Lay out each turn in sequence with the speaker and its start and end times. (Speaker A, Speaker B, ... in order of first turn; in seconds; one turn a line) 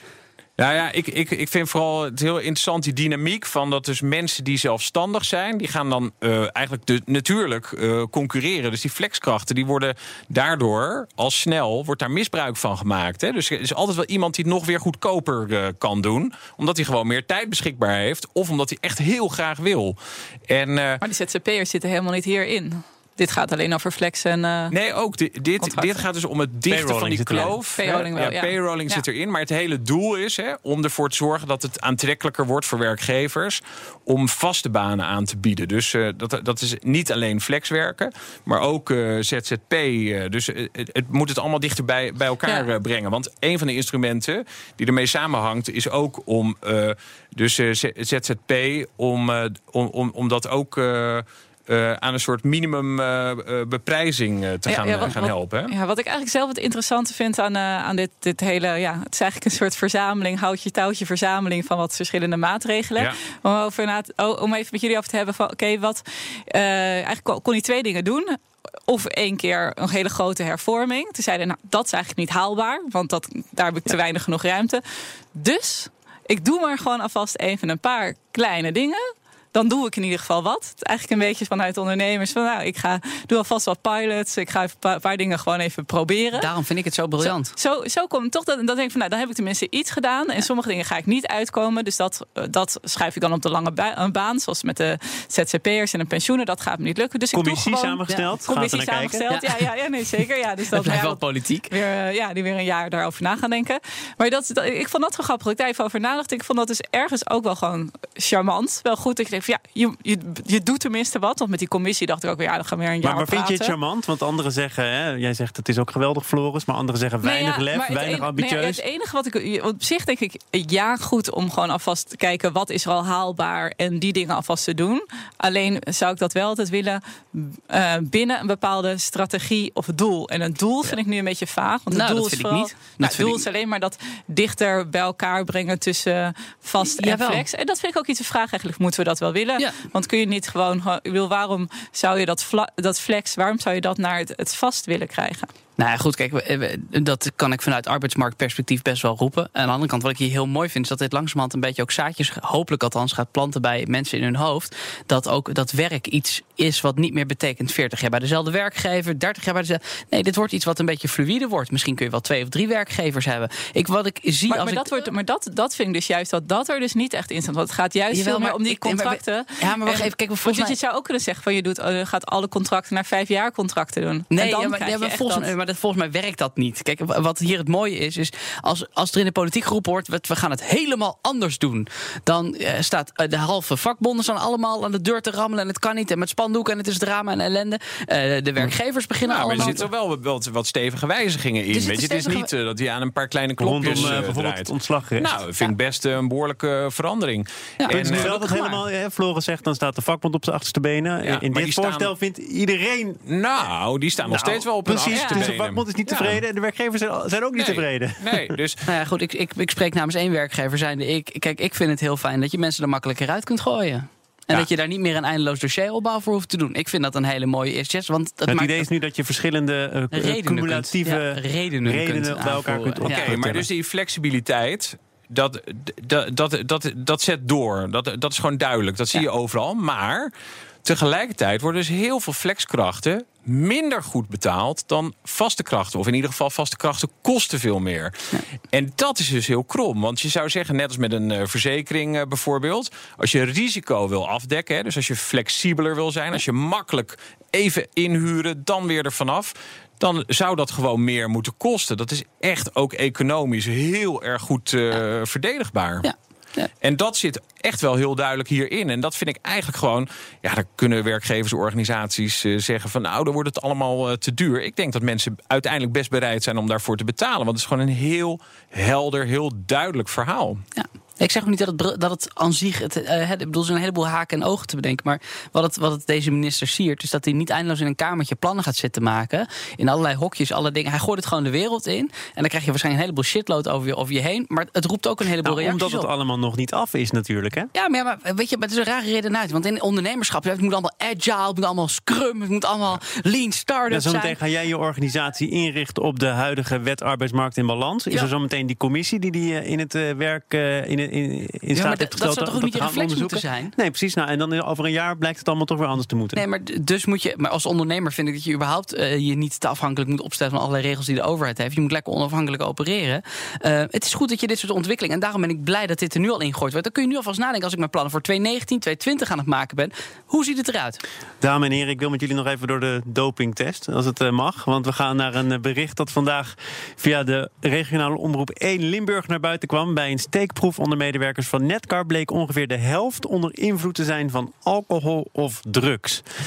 Speaker A: 0.6-20.0
Speaker A: 20.5-21.0
Speaker B: 21.0-24.7
Speaker A: 24.7-55.7
Speaker B: 25.6-26.1
Speaker C: 26.7-27.5
Speaker B: 27.4-29.0
Speaker B: 42.4-42.7
Speaker B: 54.6-68.3
Speaker B: 68.9-74.8
Speaker B: 75.3-79.0
Speaker B: 79.5-86.5
Speaker D: 86.3-87.5
Speaker B: 87.2-113.8
Speaker C: 97.3-99.3
Speaker D: 99.3-99.7
Speaker D: 100.7-101.7
Speaker C: 113.0-118.8
Speaker B: 117.2-145.5
Speaker D: 131.9-133.4
Speaker D: 136.8-137.4
Speaker D: 145.8-165.1
Speaker B: 164.5-175.5
Speaker D: 168.1-170.8
Speaker D: 174.3-189.8
Speaker A: 189.2-198.4
Speaker C: 189.5-189.8
Speaker D: 191.7-192.5
Speaker C: 193.6-195.4
Speaker D: 197.8-198.8
Speaker C: 197.9-203.2
Speaker A: 201.2-202.1
Speaker A: 203.2-206.4
Speaker C: 204.2-208.5
Speaker B: 205.2-205.5
Speaker A: 207.6-208.8
Speaker D: 208.8-218.9
Speaker C: 218.5-223.6
Speaker D: 220.1-223.4
Speaker A: 223.1-230.3
Speaker A: 230.8-238.1
Speaker A: 238.7-256.1
Speaker D: 256.0-256.7
Speaker A: 256.8-270.6
Speaker D: 270.8-286.1
Speaker C: 285.4-287.7
Speaker D: 287.7-294.4
Speaker C: 293.9-306.4
Speaker D: 301.7-303.7
Speaker D: 306.3-321.0
Speaker C: 321.4-336.2